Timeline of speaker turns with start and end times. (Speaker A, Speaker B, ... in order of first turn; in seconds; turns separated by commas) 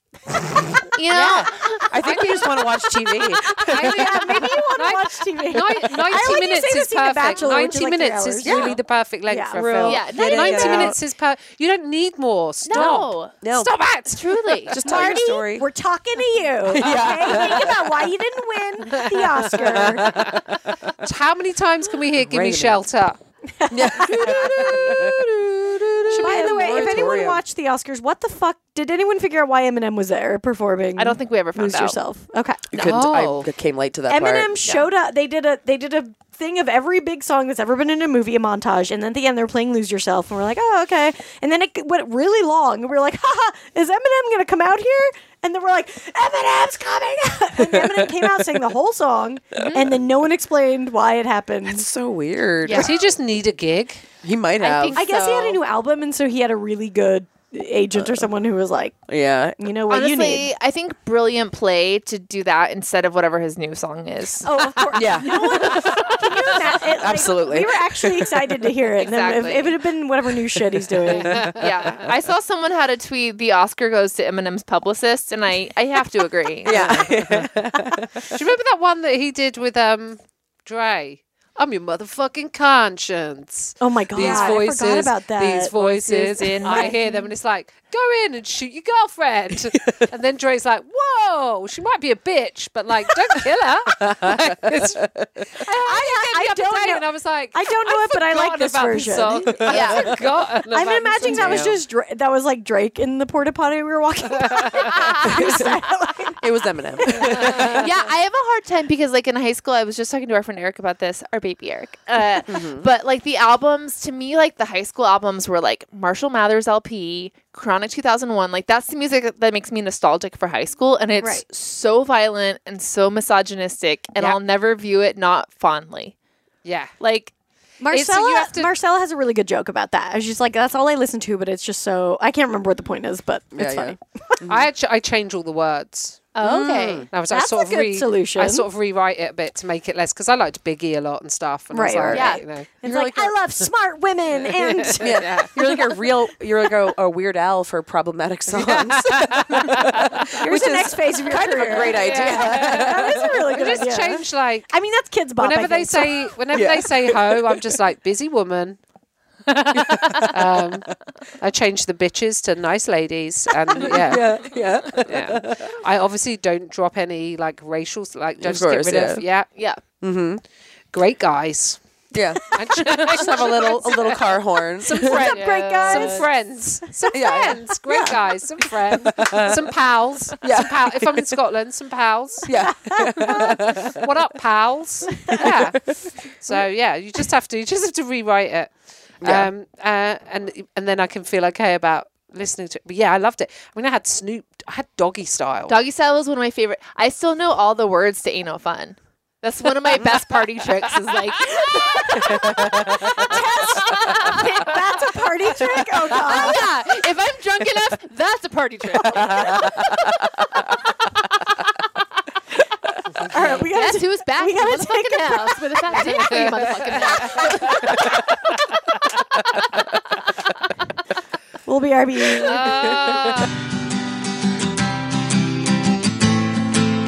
Speaker A: 0.9-2.4, Speaker B: 1.1-4.1, Speaker C: 2.0-2.3, Speaker D: 3.5-10.9, Speaker C: 3.6-14.8, Speaker B: 8.4-8.8, Speaker A: 9.8-10.8, Speaker B: 10.3-10.9, Speaker A: 12.7-13.4, Speaker B: 12.7-13.7, Speaker A: 14.1-14.7, Speaker B: 14.7-15.7, Speaker D: 14.8-20.1, Speaker B: 16.6-17.9, Speaker C: 19.1-20.4, Speaker B: 19.9-20.6, Speaker C: 21.0-23.2, Speaker B: 22.2-22.8, Speaker D: 23.5-25.2, Speaker B: 23.7-27.4, Speaker C: 24.0-25.1, Speaker D: 26.1-32.6, Speaker A: 31.0-32.0, Speaker B: 32.7-34.5, Speaker A: 32.7-33.4, Speaker C: 32.8-33.4, Speaker D: 34.1-51.9, Speaker B: 47.7-48.2, Speaker A: 49.6-49.8, Speaker B: 51.7-52.9, Speaker A: 52.6-52.9, Speaker C: 52.7-54.0, Speaker B: 54.2-55.0, Speaker A: 54.6-55.6, Speaker D: 54.9-59.0, Speaker B: 58.0-58.2, Speaker B: 59.1-59.6, Speaker D: 59.6-60.5, Speaker A: 59.9-66.6, Speaker D: 64.4-71.4, Speaker B: 64.9-65.7, Speaker B: 66.9-68.3, Speaker A: 69.0-69.8, Speaker C: 71.1-72.0, Speaker A: 71.6-77.1, Speaker B: 76.6-78.3, Speaker C: 76.7-77.5, Speaker C: 78.3-101.7, Speaker D: 83.8-87.0, Speaker A: 84.2-84.6, Speaker A: 85.8-87.3, Speaker B: 89.8-90.1, Speaker B: 94.0-95.4, Speaker D: 95.6-99.7, Speaker B: 99.5-100.2, Speaker A: 99.7-100.2, Speaker D: 100.7-106.4, Speaker B: 101.3-101.7, Speaker C: 104.5-104.8, Speaker A: 104.9-105.5, Speaker B: 105.3-105.5, Speaker B: 106.4-107.9, Speaker D: 107.0-107.8, Speaker C: 107.4-107.8, Speaker A: 107.7-126.1, Speaker B: 112.5-112.9, Speaker D: 121.2-121.4, Speaker C: 126.6-126.9, Speaker A: 127.0-127.3, Speaker D: 127.8-134.4, Speaker C: 127.9-128.7, Speaker B: 133.5-134.7, Speaker C: 134.5-136.3, Speaker A: 136.3-137.1, Speaker B: 136.4-137.1, Speaker C: 137.1-142.7, Speaker D: 137.3-138.7, Speaker D: 141.7-145.8, Speaker A: 142.1-142.4, Speaker B: 142.8-143.3, Speaker C: 144.4-145.5, Speaker B: 145.0-153.2, Speaker C: 148.5-150.2, Speaker D: 150.4-156.3, Speaker C: 151.6-154.7, Speaker C: 155.4-158.8, Speaker B: 156.5-157.6, Speaker C: 159.5-160.9, Speaker B: 159.7-160.9, Speaker C: 161.4-169.5, Speaker B: 163.8-165.8, Speaker B: 168.4-169.2, Speaker A: 169.6-169.8, Speaker B: 170.0-170.4, Speaker C: 170.9-171.8, Speaker B: 172.1-175.3, Speaker D: 172.5-173.0, Speaker C: 172.5-182.5, Speaker D: 174.9-176.3, Speaker D: 177.0-178.2, Speaker B: 177.1-177.6, Speaker B: 179.1-179.6, Speaker B: 180.4-181.3, Speaker B: 182.4-183.9, Speaker D: 182.6-183.6, Speaker C: 183.3-188.7, Speaker B: 185.4-185.9, Speaker B: 189.2-189.5, Speaker C: 189.2-195.8, Speaker A: 195.7-204.8, Speaker D: 201.9-206.7, Speaker A: 206.1-209.8, Speaker D: 213.2-216.1, Speaker A: 213.4-218.2, Speaker C: 215.9-217.6, Speaker D: 221.7-223.0, Speaker A: 222.5-223.4, Speaker C: 222.5-223.4